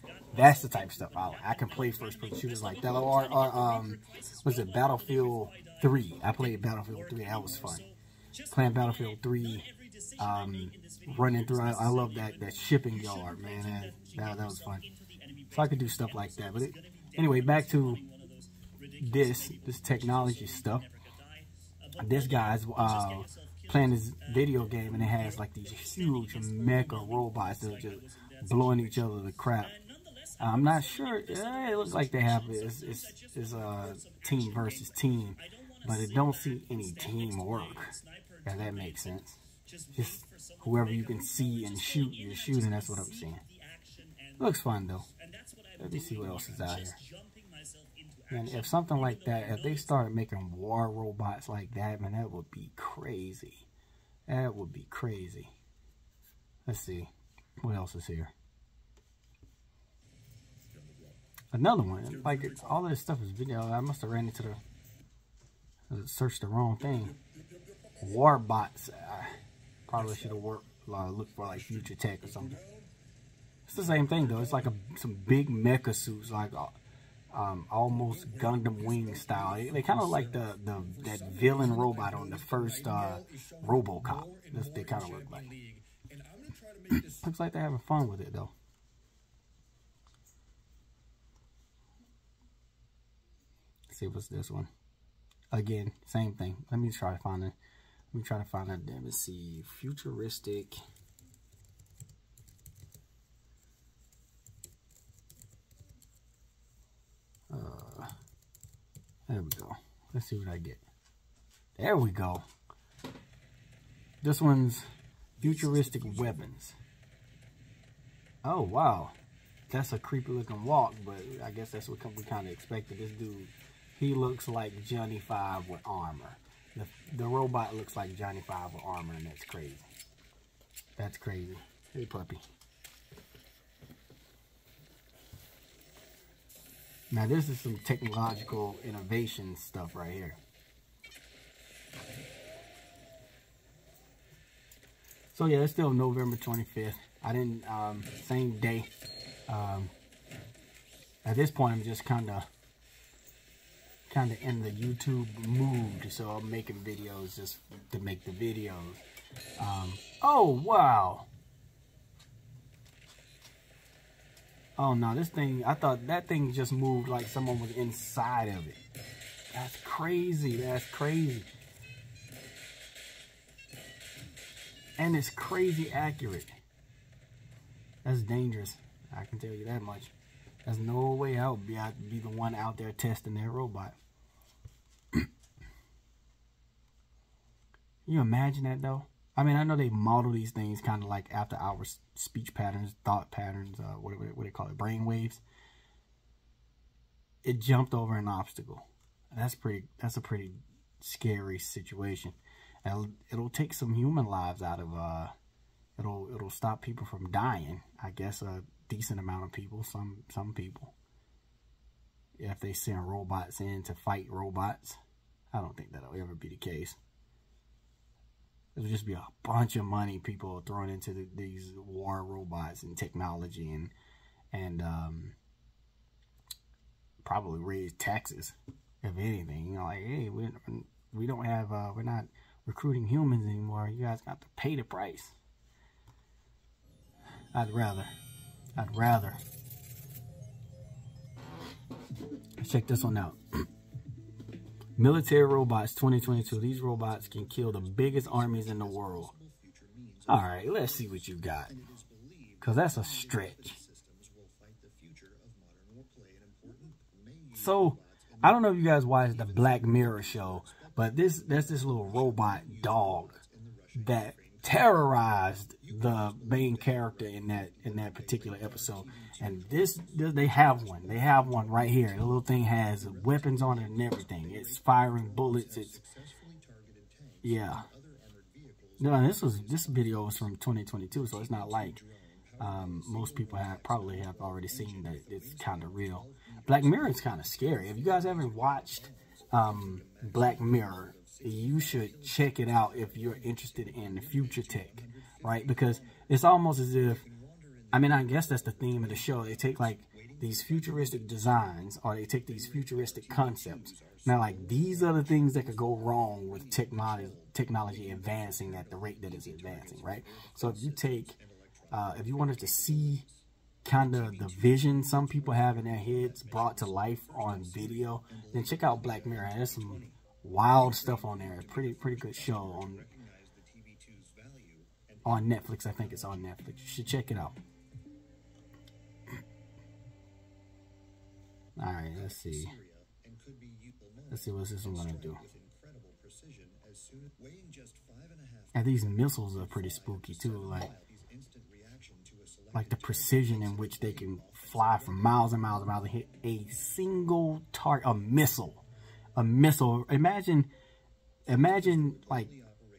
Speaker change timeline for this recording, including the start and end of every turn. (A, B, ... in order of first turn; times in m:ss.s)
0:00.3-0:07.9 A
0:08.5-0:09.7 A
0:10.2-0:14.8 A
0:15.5-0:18.0 A
0:19.0-0:20.9 A
0:22.0-0:29.8 A
0:30.4-0:39.4 A
0:39.9-0:43.4 A
0:44.4-0:45.1 A
0:45.8-0:47.0 A
0:48.3-0:53.7 A
0:54.3-0:55.5 A
0:56.7-0:58.3 A
1:01.5-1:04.6 A
1:05.9-1:07.2 A
1:08.0-1:12.6 A
1:13.7-1:16.7 A
1:17.3-1:25.5 A
1:26.9-1:28.5 A
1:33.9-1:34.7 A
1:35.5-1:37.6 A
1:38.1-1:40.8 A
1:47.5-1:48.1 A
1:49.3-1:50.8 A
1:51.8-1:52.4 A
1:54.2-1:54.8 A
1:55.4-1:56.8 A
1:58.4-1:59.2 A
1:59.7-2:09.8 A
2:11.0-2:12.4 A
2:17.1-2:20.4 A
2:25.3-2:28.9 A
2:29.5-2:29.9 A
2:31.2-2:32.5 A
2:34.1-2:39.0 A
2:39.6-2:41.3 A
2:44.8-2:48.8 A
2:49.5-2:51.5 A
2:55.0-2:56.5 A
2:58.0-3:00.1 A
3:00.6-3:04.0 A
3:08.1-3:15.4 A
3:17.4-3:25.3 A
3:26.0-3:30.9 A
3:32.4-3:35.0 A
3:35.5-3:37.0 A
3:38.8-3:43.9 A
3:44.5-3:45.4 A
3:47.2-3:55.3 A
3:57.5-3:58.1 A
3:58.8-3:59.4 A
4:02.6-4:03.4 A
4:05.0-4:09.4 A
4:10.3-4:11.8 A
4:12.6-4:13.8 A
4:17.5-4:23.4 A
4:23.9-4:36.1 A
4:37.4-4:37.9 A
4:39.0-4:42.0 A
4:42.6-4:57.3 A
4:57.9-5:11.4 A
5:11.9-5:13.3 A
5:13.8-5:23.1 A
5:25.2-5:27.6 A
5:31.8-5:32.8 A
5:34.3-5:35.4 A
5:38.8-5:41.0 A
5:42.7-5:48.8 A
5:49.4-5:50.7 A
5:51.5-5:52.5 A